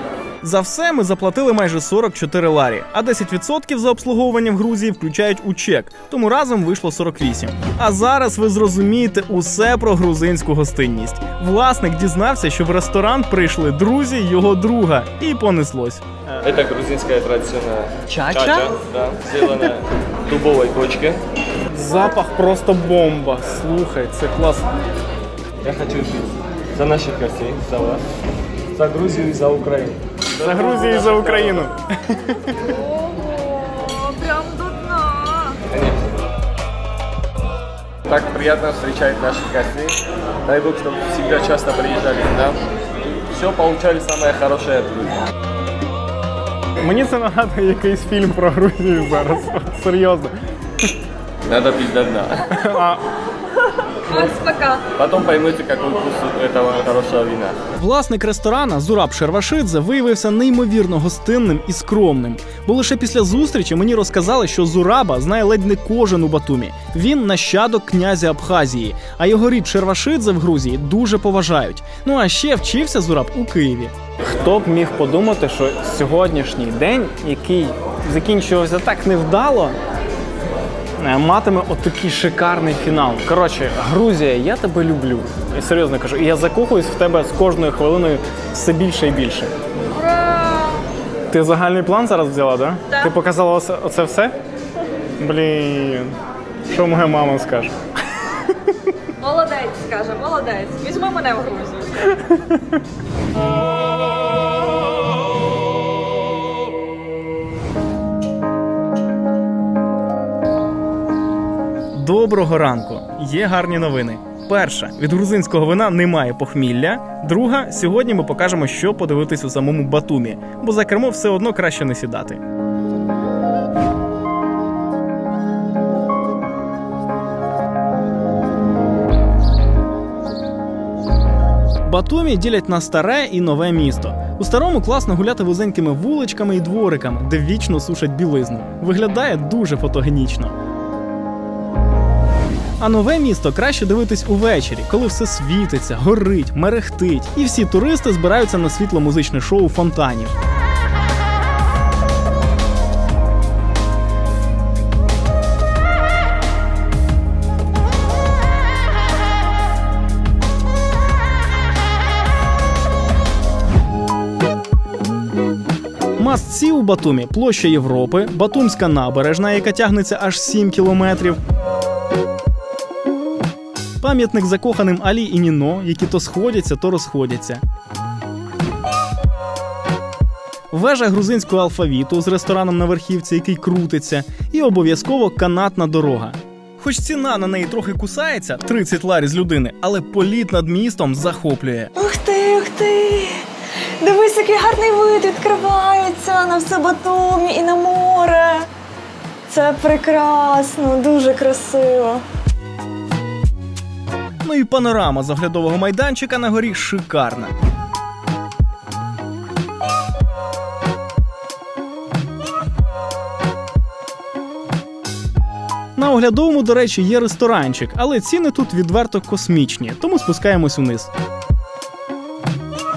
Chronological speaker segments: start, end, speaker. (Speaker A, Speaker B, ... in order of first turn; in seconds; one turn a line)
Speaker A: 0.4-16.0
Speaker B: 16.4-21.2
Speaker C: 18.1-18.7
Speaker C: 21.7-24.7
Speaker B: 25.6-28.0
Speaker B: 28.8-31.7
Speaker C: 30.4-32.5
Speaker D: 32.7-35.6
Speaker B: 35.7-36.0
Speaker B: 38.1-42.6
Speaker B: 43.3-45.2
Speaker C: 46.8-50.3
Speaker B: 51.5-52.5
Speaker C: 52.5-53.0
Speaker D: 54.1-54.8
Speaker B: 54.9-57.6
Speaker A: 57.8-73.9
Speaker C: 74.2-79.8
Speaker C: 81.0-89.5
Speaker D: 90.3-90.6
Speaker C: 91.3-94.3
Speaker C: 95.2-96.2
Speaker C: 96.7-97.7
Speaker D: 99.2-102.2
Speaker A: 111.9-122.4
Speaker A: 131.9-140.5
Speaker A: 142.8-150.3
Speaker A: 166.2-171.4
Speaker A: 174.0-177.6
Speaker A: 180.7-191.9
Speaker D: 192.0-193.4
Speaker D: 194.0-198.7
Speaker D: 199.5-202.2
Speaker A: 204.4-207.5
Speaker A: 216.0-221.1